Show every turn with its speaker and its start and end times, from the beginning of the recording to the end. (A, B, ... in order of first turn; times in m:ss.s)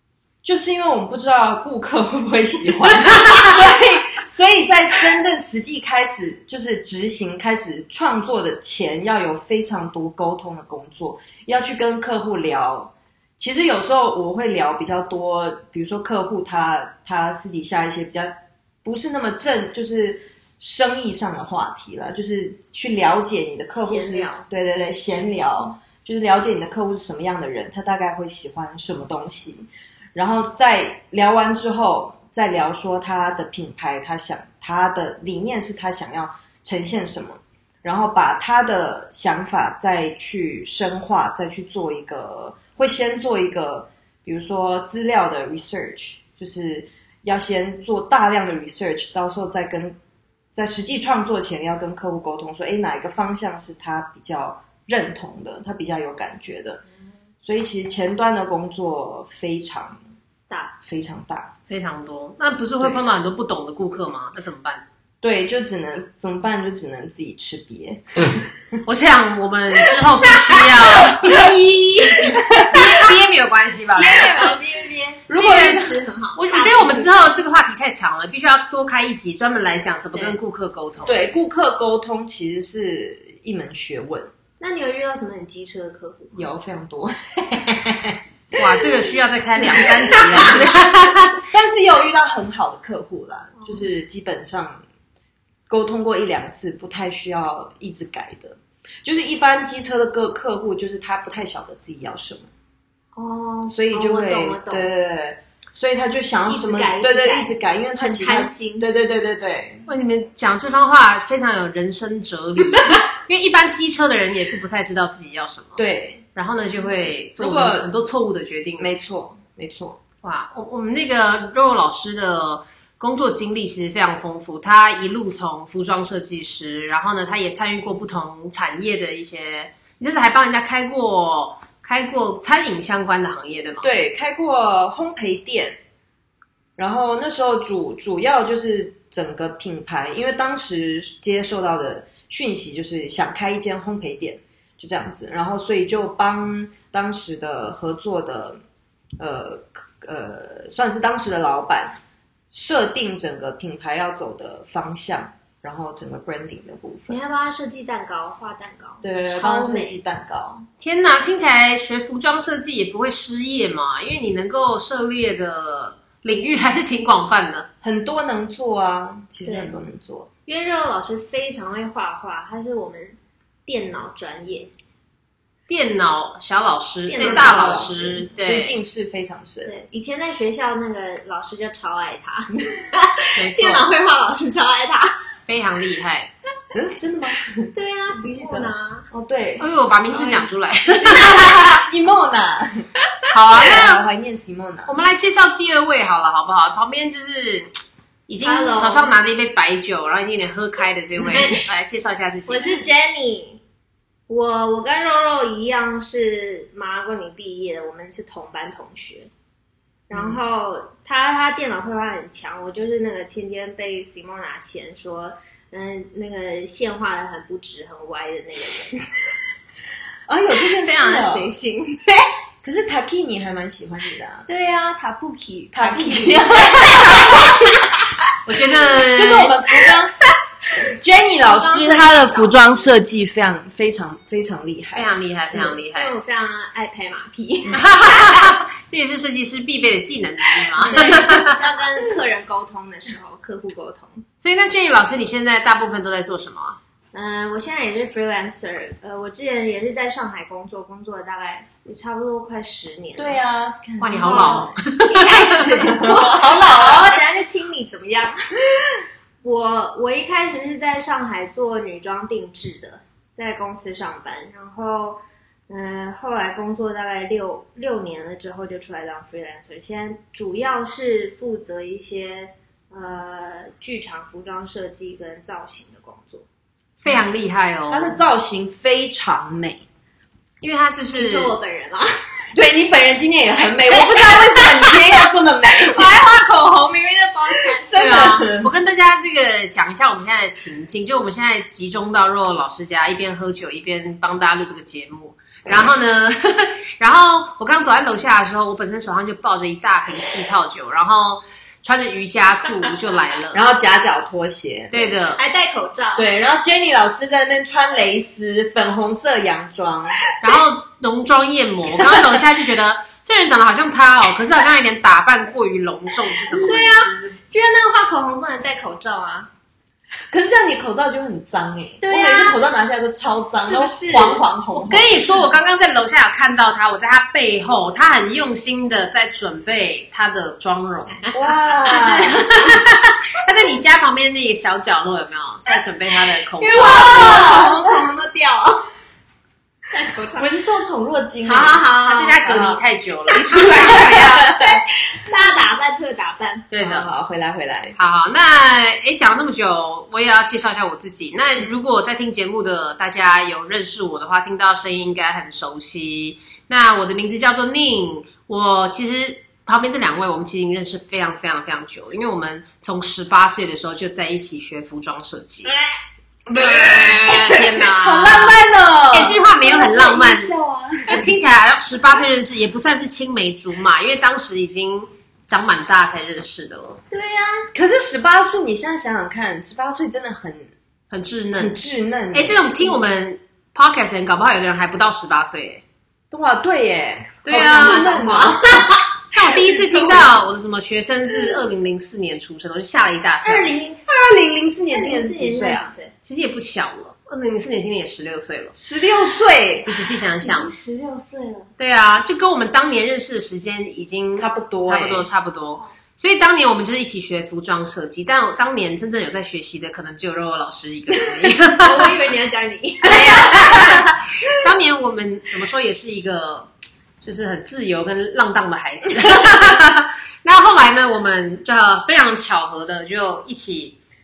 0:00.4-0:50.0 A
0:23.7-0:24.4 B
0:50.5-0:56.8 A
0:57.4-1:00.0 A
1:00.5-1:00.7 B
1:00.8-1:01.5 A
1:01.7-1:04.8 C
1:05.2-1:08.8 A
1:08.8-1:11.4 C
1:10.2-1:13.2 A
1:11.3-1:12.7 B
1:12.7-1:14.3 C
1:14.0-1:17.1 B
1:14.0-1:14.5 A
1:15.3-1:16.0 A
1:15.4-1:21.2 C
1:21.0-1:24.3 A
1:24.6-1:26.4 B
1:26.3-1:29.0 A
1:28.5-1:31.4 C
1:29.6-1:30.7 A
1:31.5-1:34.8 A
1:35.7-1:42.5 A
1:43.2-1:44.9 B
1:43.7-1:49.8 A
1:46.5-1:48.9 B
1:49.9-1:55.8 C
1:55.8-1:56.2 A
1:56.3-1:58.9 C
1:57.4-1:57.9 A
1:58.8-2:00.0 A
2:00.2-2:13.9 C
2:13.8-2:15.8 A
2:16.8-2:28.6 A
2:29.2-2:32.0 A
2:32.5-2:37.2 A
2:37.1-2:40.0 B
2:39.0-2:40.7 A
2:40.8-2:47.7 C
2:47.8-2:50.3 A
2:49.4-2:49.8 B
2:50.5-2:54.7 B
2:55.7-2:58.8 C
2:57.1-2:58.2 B
2:57.1-2:59.7 A
2:59.6-3:05.2 B
3:03.4-3:03.9 C
3:05.5-3:06.3 C
3:06.7-3:09.7 A
3:07.7-3:09.1 B
3:09.6-3:11.8 C
3:10.1-3:10.5 B
3:11.0-3:12.8 A
3:11.0-3:11.6 B
3:13.3-3:14.0 C
3:13.5-3:15.0 A
3:14.9-3:17.7 C
3:18.3-3:22.8 C
3:18.4-3:19.1 B
3:21.2-3:21.6 B
3:22.4-3:23.6 B
3:24.3-3:29.3 B
3:30.1-3:30.4 A
3:30.1-3:39.1 B
3:40.3-3:41.5 A
3:40.6-3:42.2 B
3:42.6-3:44.4 A
3:44.5-3:48.0 B
3:45.7-3:47.8 A
3:48.4-3:49.6 C
3:48.9-3:50.1 A
3:50.9-3:55.2 A
3:51.4-3:52.9 B
3:54.9-3:56.1 C
3:55.5-3:58.6 B
3:57.7-4:01.6 C
4:00.8-4:04.2 B
4:04.4-4:06.8 C
4:07.1-4:13.4 B
4:13.2-4:14.7 A
4:14.0-4:15.8 C
4:14.1-4:18.4 B
4:15.6-4:17.2 A
4:19.4-4:36.4 B
4:37.0-4:38.2 C
4:37.9-4:39.8 A
4:40.6-4:41.6 C
4:41.1-4:42.1 B
4:42.5-4:46.1 A
4:43.8-4:48.3 B
4:47.5-4:48.7 A
4:48.0-5:03.6 C
5:03.5-5:05.1 A
5:04.9-5:05.4 C
5:05.3-5:06.3 B
5:06.2-5:10.2 A
5:10.4-5:17.4 C
5:16.5-5:19.5 B
5:20.3-5:25.3 A
5:22.0-5:22.6 B
5:23.6-5:24.5 B
5:24.7-5:31.2 C
5:31.2-5:31.5 B
5:31.3-5:32.4 A
5:31.8-5:37.4 C
5:36.6-5:38.8 B
5:36.7-5:38.0 A
5:39.9-5:40.5 B
5:40.4-5:41.8 A
5:41.4-5:42.4 B
5:42.0-5:44.5 C
5:42.4-5:42.8 A
5:43.8-5:44.8 A
5:45.2-5:46.7 B
5:46.7-5:47.1 C
5:46.8-5:48.0 A
5:48.0-6:05.7 C
6:06.5-6:08.6 C
6:06.5-6:11.2 A
6:09.1-6:10.5 C
6:11.1-6:17.0 C
6:17.1-6:17.7 B
6:17.7-6:20.7 A
6:21.1-6:21.8 C
6:21.6-6:22.6 A
6:22.3-6:25.8 C
6:26.3-6:29.0 A
6:27.4-6:28.1 C
6:27.5-6:30.1 B
6:29.3-6:33.7 C
6:29.9-6:30.2 A
6:33.4-6:34.1 B
6:34.1-6:35.9 A
6:34.9-6:36.1 B
6:36.2-6:38.7 C
6:38.7-6:40.1 A
6:39.9-6:40.7 C
6:40.4-6:41.7 B
6:41.8-6:52.1 C
6:44.4-6:45.3 A
6:51.8-6:54.1 B
6:53.0-6:56.7 C
6:57.2-7:04.0 C